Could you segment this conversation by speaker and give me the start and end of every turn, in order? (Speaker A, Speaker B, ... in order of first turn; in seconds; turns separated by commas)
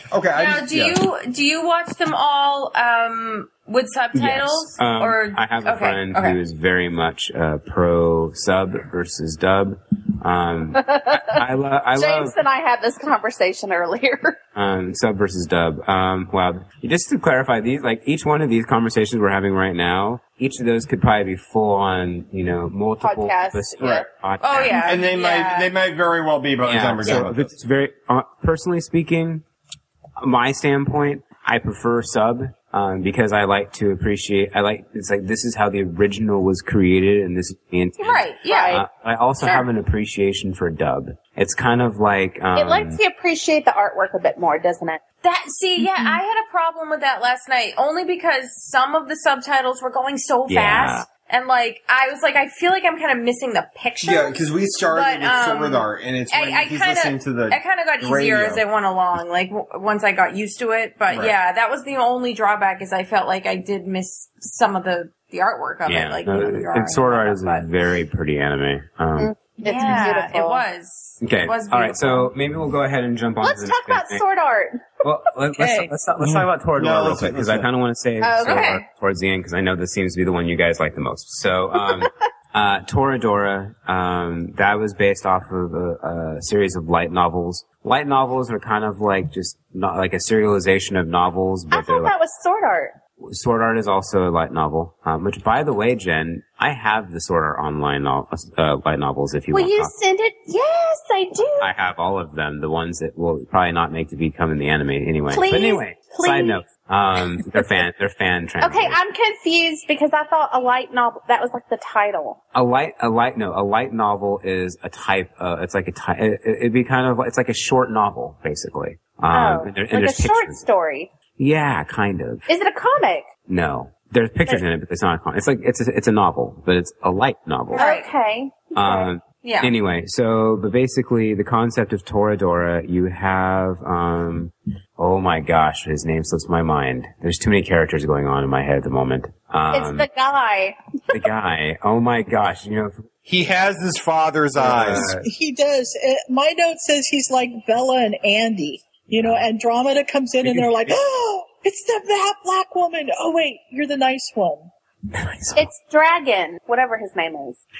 Speaker A: 0.1-1.0, Speaker B: 0.3-6.4, Speaker C: 4.1-12.3, Speaker D: 10.8-11.4, Speaker D: 11.9-14.4, Speaker C: 14.5-24.9, Speaker D: 23.0-24.1, Speaker B: 24.4-25.7, Speaker A: 24.8-27.5, Speaker C: 26.6-29.4, Speaker C: 30.2-43.0, Speaker B: 38.0-38.8, Speaker D: 38.5-38.8, Speaker D: 42.5-45.0, Speaker B: 45.2-67.7, Speaker C: 50.5-51.1, Speaker A: 54.0-58.6, Speaker A: 61.1-61.3, Speaker C: 65.8-69.3, Speaker D: 69.2-70.6, Speaker B: 69.6-72.3, Speaker C: 71.2-74.2, Speaker D: 73.4-74.8, Speaker C: 75.0-92.1, Speaker E: 75.6-75.9, Speaker A: 76.2-77.7, Speaker D: 78.2-78.8, Speaker B: 78.4-78.8, Speaker D: 81.8-82.1, Speaker D: 91.7-92.9, Speaker C: 93.2-99.9, Speaker D: 99.5-101.7, Speaker C: 101.6-109.0, Speaker D: 105.3-106.6, Speaker D: 108.6-112.4, Speaker C: 112.5-120.6, Speaker D: 119.3-121.1, Speaker C: 121.4-122.5, Speaker D: 122.5-123.3, Speaker C: 123.5-127.8, Speaker B: 127.7-128.1, Speaker D: 127.7-129.1, Speaker C: 128.7-140.1, Speaker B: 129.4-129.7, Speaker D: 139.7-140.8, Speaker C: 141.1-143.1, Speaker A: 143.3-145.1, Speaker C: 144.6-145.2, Speaker E: 145.0-154.7, Speaker C: 149.2-149.5, Speaker C: 150.4-151.0, Speaker C: 155.1-155.7, Speaker D: 155.6-157.6